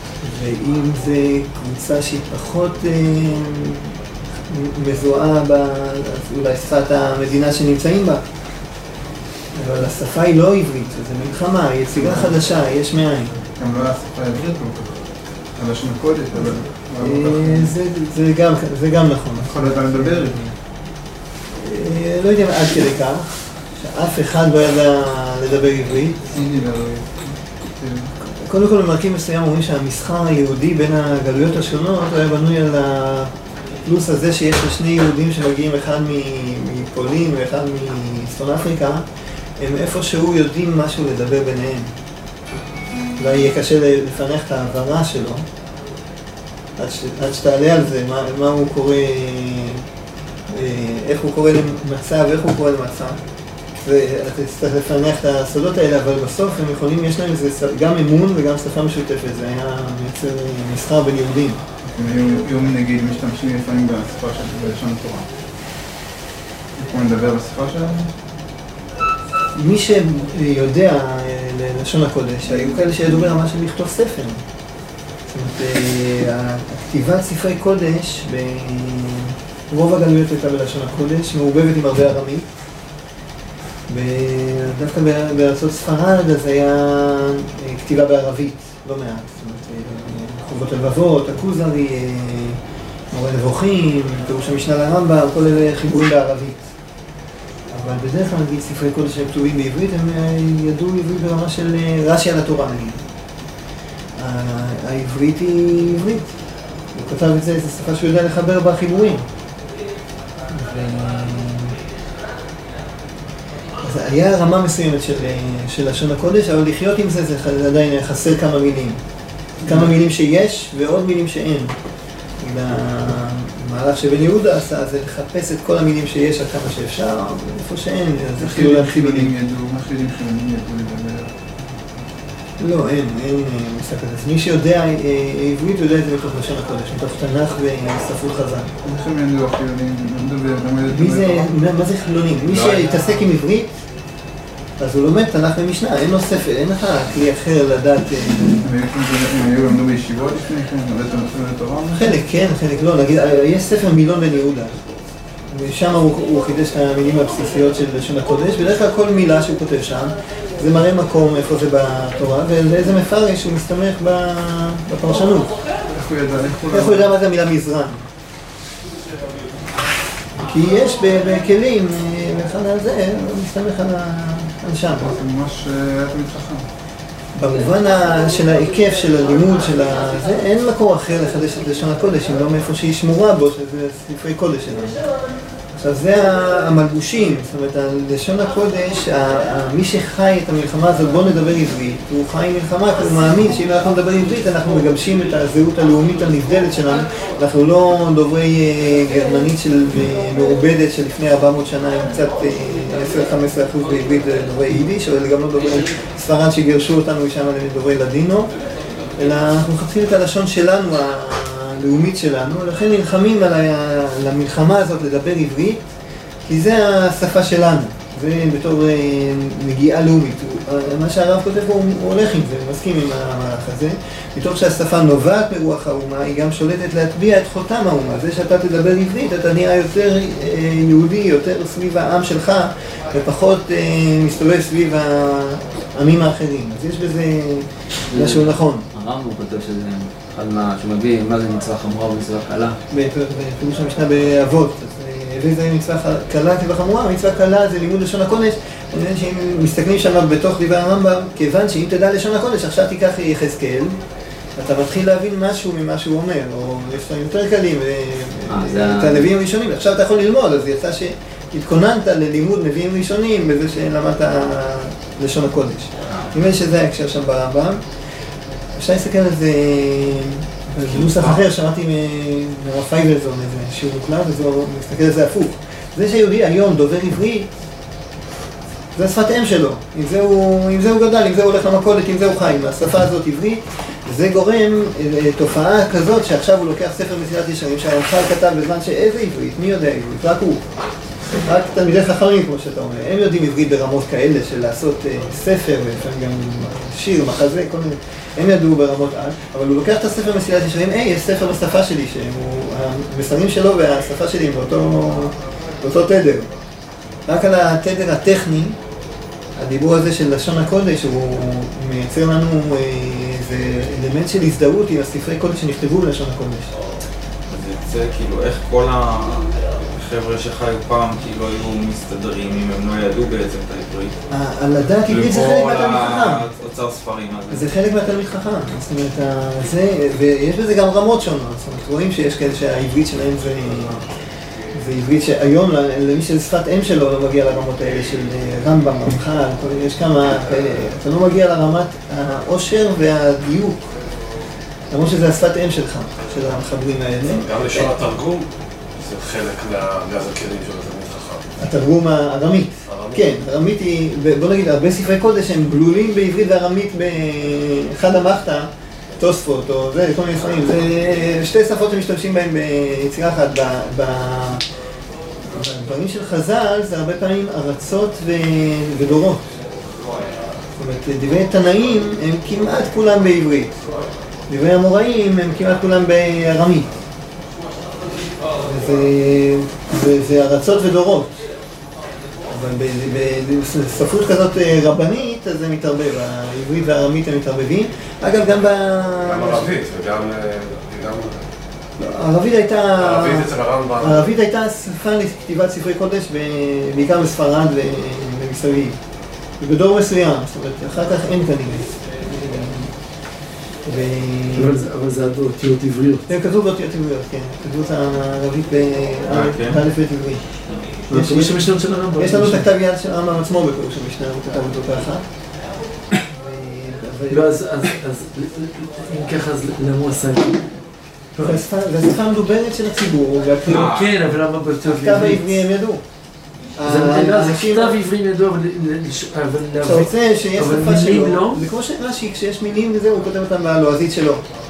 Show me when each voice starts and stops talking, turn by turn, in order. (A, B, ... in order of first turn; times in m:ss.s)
0:00.2-0:03.9 A
0:04.5-0:08.2 A
0:09.5-0:13.4 A
0:13.5-0:15.0 B
0:15.5-0:17.7 B
0:17.0-0:20.5 A
0:19.4-0:20.4 B
0:21.5-0:26.3 A
0:26.3-0:28.1 B
0:28.2-0:33.3 A
0:33.8-0:39.0 A
0:39.6-0:41.9 A
0:43.2-0:45.4 A
0:46.8-0:49.8 A
0:50.5-0:53.2 A
0:53.8-1:01.6 A
1:01.8-1:05.3 B
1:06.7-1:08.1 B
1:09.5-1:14.4 A
1:15.3-1:22.5 A
1:23.9-1:32.6 A
1:33.1-1:36.7 A
1:37.7-1:43.0 A
1:44.2-1:46.3 A
1:46.9-1:49.2 A
1:50.5-1:51.8 A
1:53.8-1:59.0 A
1:59.6-2:01.7 A
2:02.4-2:09.3 A
2:08.4-2:11.7 B
2:12.6-2:18.7 A
2:18.8-2:21.5 B
2:20.9-2:23.7 A
2:22.5-2:23.2 B
2:24.8-2:28.6 A
2:28.6-2:32.2 B
2:31.9-2:34.8 A
2:35.5-2:45.5 A
2:45.9-2:47.1 B
2:46.7-2:48.0 A
2:50.4-2:55.1 A
2:55.0-2:56.7 B
2:57.3-3:05.0 A
3:05.7-3:28.5 A
3:29.2-3:35.9 A
3:36.4-3:58.9 A
3:58.1-4:02.8 C
4:02.9-4:14.0 A
4:14.6-4:27.8 A
4:18.5-4:19.2 C
4:28.8-4:37.5 A
4:30.9-4:31.4 D
4:38.9-4:50.6 A
4:51.4-5:06.5 A
5:07.3-5:08.8 A
5:09.6-5:16.7 A
5:17.5-5:24.2 D
5:24.3-5:26.4 A
5:25.0-5:27.7 D
5:27.5-5:34.0 A
5:34.7-5:43.9 A
5:44.9-5:47.5 A
5:47.3-5:51.5 E
5:51.6-6:04.6 A
5:52.9-5:53.2 E
6:05.5-6:09.5 A
6:10.8-6:13.8 A
6:14.5-6:16.9 A
6:18.6-6:21.4 A
6:22.5-6:29.7 A
6:29.2-6:31.4 E
6:32.0-6:39.0 A
6:33.0-6:34.2 E
6:39.6-6:42.9 A
6:43.8-6:44.8 A
6:44.5-6:46.2 F
6:46.3-6:55.2 A
6:49.3-6:49.8 D
6:51.1-6:52.7 F
6:56.3-6:57.6 A
6:57.3-7:00.7 F
7:01.4-7:01.6 F
7:01.4-7:03.9 A
7:03.6-7:05.5 F
7:03.7-7:04.2 D
7:04.8-7:06.0 A
7:06.8-7:08.0 A
7:06.8-7:11.6 F
7:09.8-7:14.4 A